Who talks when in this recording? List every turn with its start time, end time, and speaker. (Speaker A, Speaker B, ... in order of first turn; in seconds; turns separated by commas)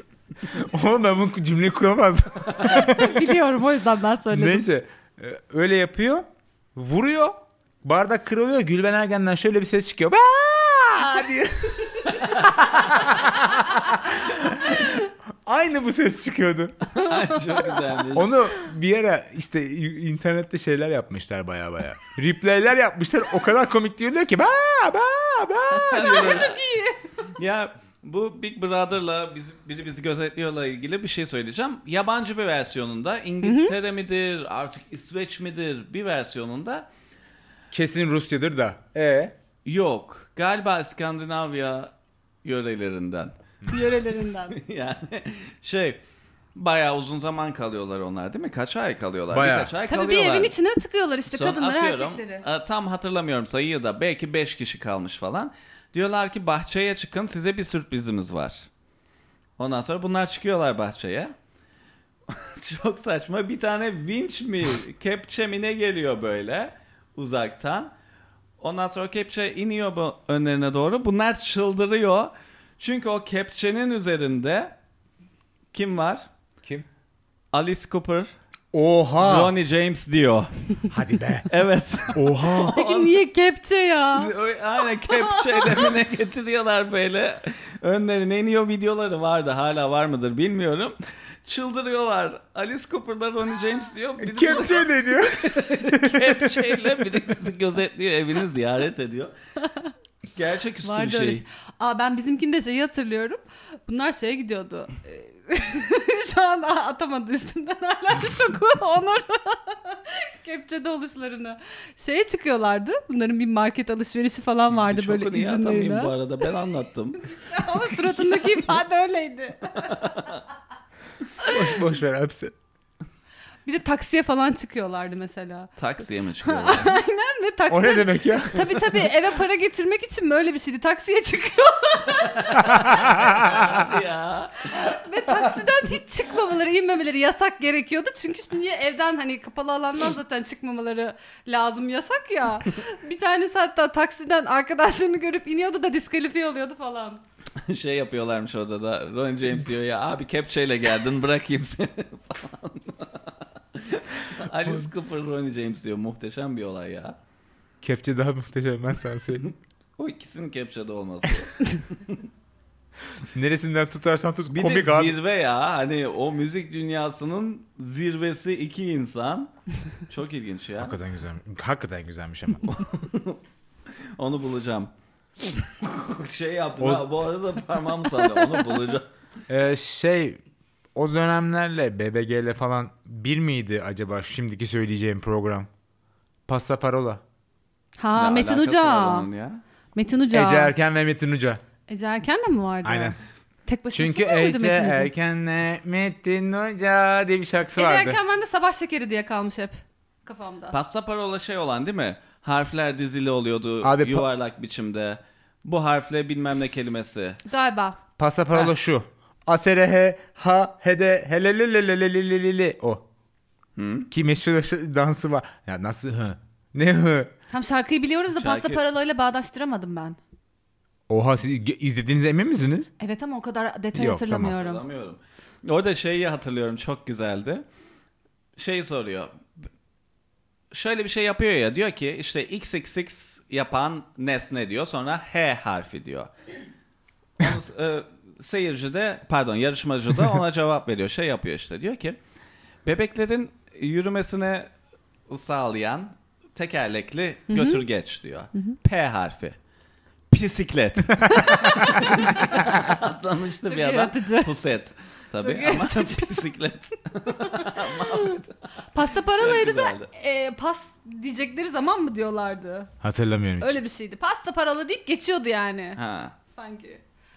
Speaker A: 0.5-3.3, Speaker B: 2.6-4.7, Speaker A: 4.3-16.9, Speaker C: 12.1-12.5, Speaker C: 17.0-18.4, Speaker A: 18.1-26.5, Speaker C: 25.7-26.6, Speaker B: 26.0-27.3, Speaker C: 27.4-36.9, Speaker B: 33.4-33.8, Speaker A: 37.7-39.3, Speaker C: 39.6-41.9, Speaker C: 42.4-43.3, Speaker B: 43.7-44.6, Speaker C: 44.5-46.0, Speaker C: 46.5-50.5, Speaker A: 49.3-49.7, Speaker B: 49.9-52.5, Speaker C: 51.3-58.7, Speaker C: 59.6-61.3, Speaker C: 62.3-67.9, Speaker C: 68.6-74.7, Speaker C: 75.7-76.3, Speaker C: 77.5-78.3, Speaker A: 78.7-79.5, Speaker C: 79.2-80.5, Speaker A: 80.9-81.5, Speaker C: 81.5-83.2, Speaker A: 82.1-82.8, Speaker B: 82.5-84.3, Speaker C: 84.2-99.3, Speaker B: 84.9-85.9, Speaker A: 94.2-96.8, Speaker B: 99.7-99.9, Speaker C: 100.3-101.4, Speaker B: 100.8-116.1, Speaker C: 114.7-117.3, Speaker B: 117.2-120.0, Speaker C: 119.8-120.4, Speaker A: 121.4-122.5, Speaker B: 123.7-125.7, Speaker C: 125.8-127.0, Speaker B: 126.4-133.3, Speaker A: 127.7-128.8, Speaker C: 132.2-134.8, Speaker A: 132.7-133.9, Speaker B: 134.7-147.2, Speaker C: 147.6-157.2, Speaker A: 157.8-159.5, Speaker C: 159.5-162.2, Speaker A: 163.3-165.2, Speaker C: 164.5-171.0, Speaker A: 170.8-172.6, Speaker C: 172.6-173.4, Speaker C: 174.2-174.9, Speaker C: 175.4-179.1, Speaker A: 176.8-177.1, Speaker A: 179.5-180.4, Speaker A: 180.9-185.7, Speaker A: 186.5-187.2, Speaker B: 188.0-189.3, Speaker C: 188.2-189.6, Speaker B: 189.9-190.7, Speaker A: 190.3-191.6, Speaker B: 191.9-193.2, Speaker A: 192.8-193.2, Speaker B: 193.7-195.1, Speaker A: 193.9-198.2, Speaker B: 197.7-200.8, Speaker C: 200.7-207.4, Speaker A: 203.8-204.3, Speaker B: 207.4-208.0, Speaker A: 208.2-213.1, Speaker C: 213.8-214.1, Speaker A: 214.1-217.3, Speaker B: 217.5-220.2, Speaker C: 218.3-218.8, Speaker A: 221.1-222.9, Speaker B: 223.0-224.8, Speaker A: 223.9-224.6, Speaker C: 224.5-227.6, Speaker C: 228.6-229.3, Speaker C: 230.7-236.3, Speaker C: 237.4-242.2, Speaker C: 242.8-244.7, Speaker C: 245.3-249.6, Speaker B: 247.5-247.8, Speaker C: 250.3-260.1, Speaker B: 251.3-252.6, Speaker B: 253.7-254.5, Speaker B: 255.4-256.5, Speaker B: 257.5-258.4, Speaker B: 258.9-262.9, Speaker A: 263.0-263.8, Speaker B: 263.6-266.0, Speaker C: 266.0-266.4, Speaker B: 266.5-267.0